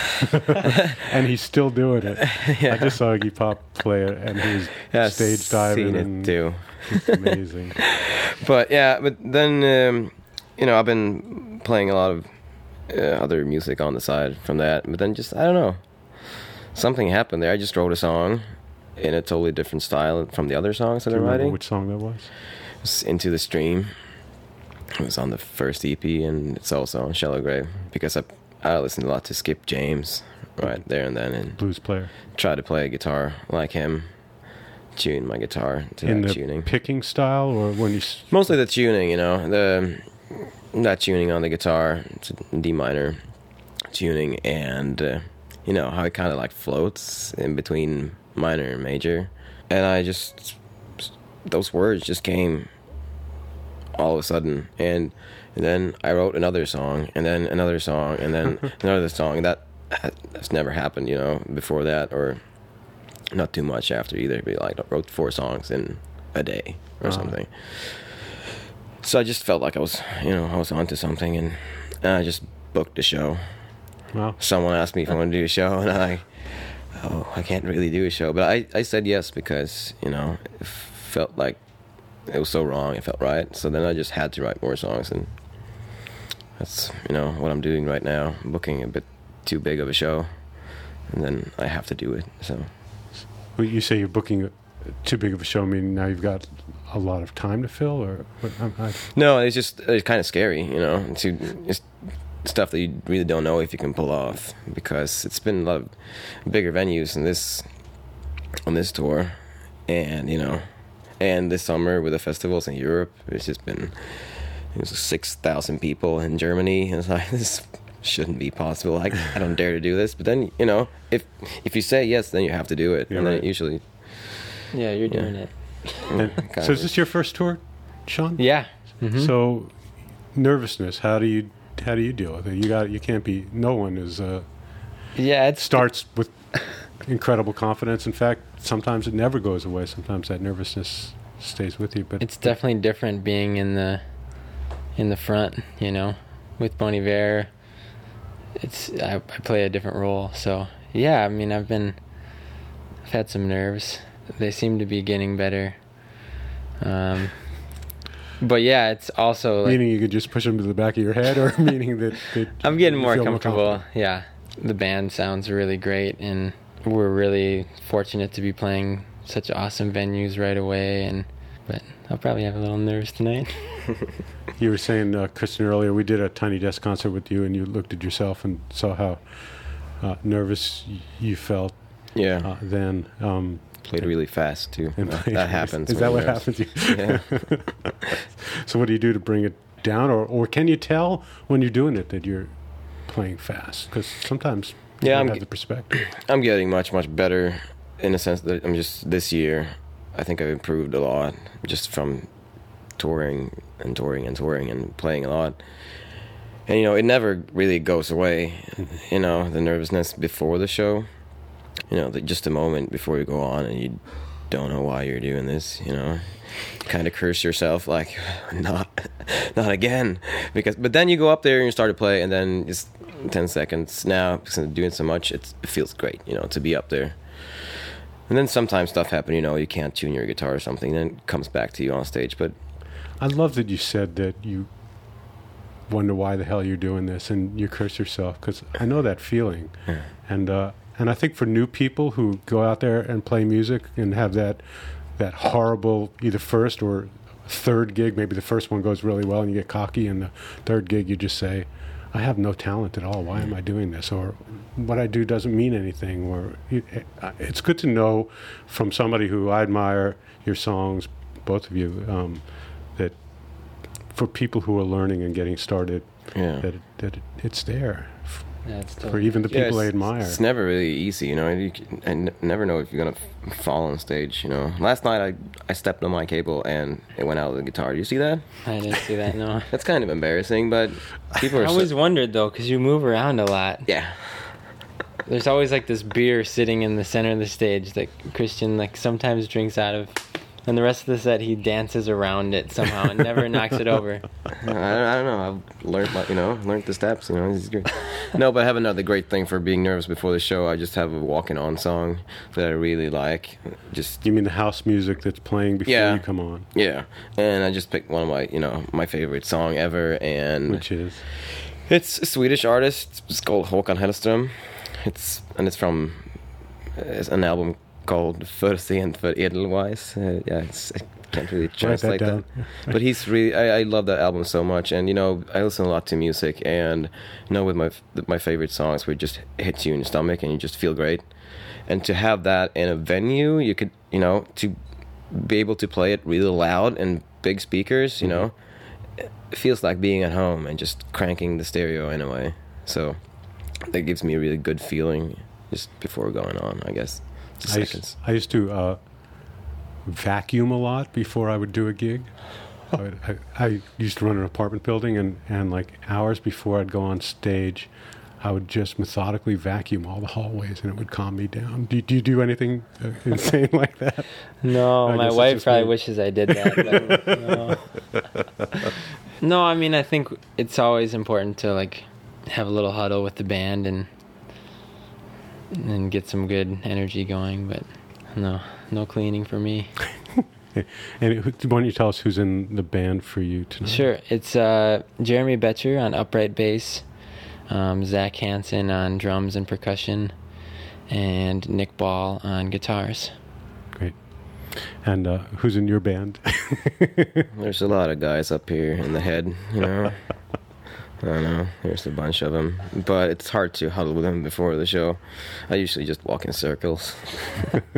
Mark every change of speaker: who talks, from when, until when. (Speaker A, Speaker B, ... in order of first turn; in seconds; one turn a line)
Speaker A: 1.0-7.8
Speaker B: 2.2-3.0
Speaker B: 4.9-7.1
Speaker B: 8.4-21.6
Speaker A: 21.1-22.3
Speaker B: 22.8-23.9
Speaker B: 25.0-34.3
Speaker A: 31.5-32.1
Speaker B: 34.9-36.7
Speaker A: 36.0-38.3
Speaker B: 38.3-52.7
Speaker B: 53.9-62.8
Speaker B: 63.3-68.3
Speaker A: 67.0-67.3
Speaker B: 69.0-73.4
Speaker B: 74.4-81.6
Speaker B: 82.1-85.9
Speaker B: 86.6-92.7
Speaker A: 93.5-99.0
Speaker B: 99.1-107.7
Speaker B: 108.6-124.5
Speaker A: 123.1-123.4
Speaker C: 124.7-126.0
Speaker B: 125.1-126.9
Speaker A: 126.2-134.4
Speaker C: 128.4-129.3
Speaker A: 135.0-142.6
Speaker C: 135.1-135.9
Speaker C: 142.2-144.0
Speaker C: 144.9-147.5
Speaker C: 148.6-152.0
Speaker C: 153.0-155.8
Speaker C: 156.8-157.7
Speaker C: 158.4-159.8
Speaker A: 159.6-163.8
Speaker C: 162.6-173.9
Speaker A: 174.6-196.0
Speaker B: 182.1-182.5
Speaker B: 183.8-187.7
Speaker B: 195.0-202.3
Speaker B: 202.9-205.6
Speaker B: 206.7-211.1
Speaker B: 211.9-232.5
Speaker A: 233.2-235.3
Speaker A: 235.9-270.4
Speaker B: 266.3-266.6
Speaker C: 268.6-269.5
Speaker B: 269.5-278.6
Speaker C: 278.6-279.7
Speaker B: 279.7-281.9
Speaker C: 281.5-283.9
Speaker B: 283.9-284.5
Speaker C: 285.2-294.3
Speaker B: 294.6-304.2
Speaker A: 304.2-306.7
Speaker B: 305.8-331.3
Speaker A: 310.7-311.2
Speaker A: 321.8-322.9
Speaker B: 331.8-334.8
Speaker B: 335.3-348.1
Speaker A: 347.7-367.6
Speaker C: 364.6-368.1
Speaker C: 369.4-374.1
Speaker C: 375.7-380.0
Speaker A: 380.7-384.0
Speaker C: 383.8-387.1
Speaker C: 387.7-390.3
Speaker C: 391.1-393.4
Speaker A: 393.9-397.4
Speaker B: 397.5-400.6
Speaker B: 401.2-407.7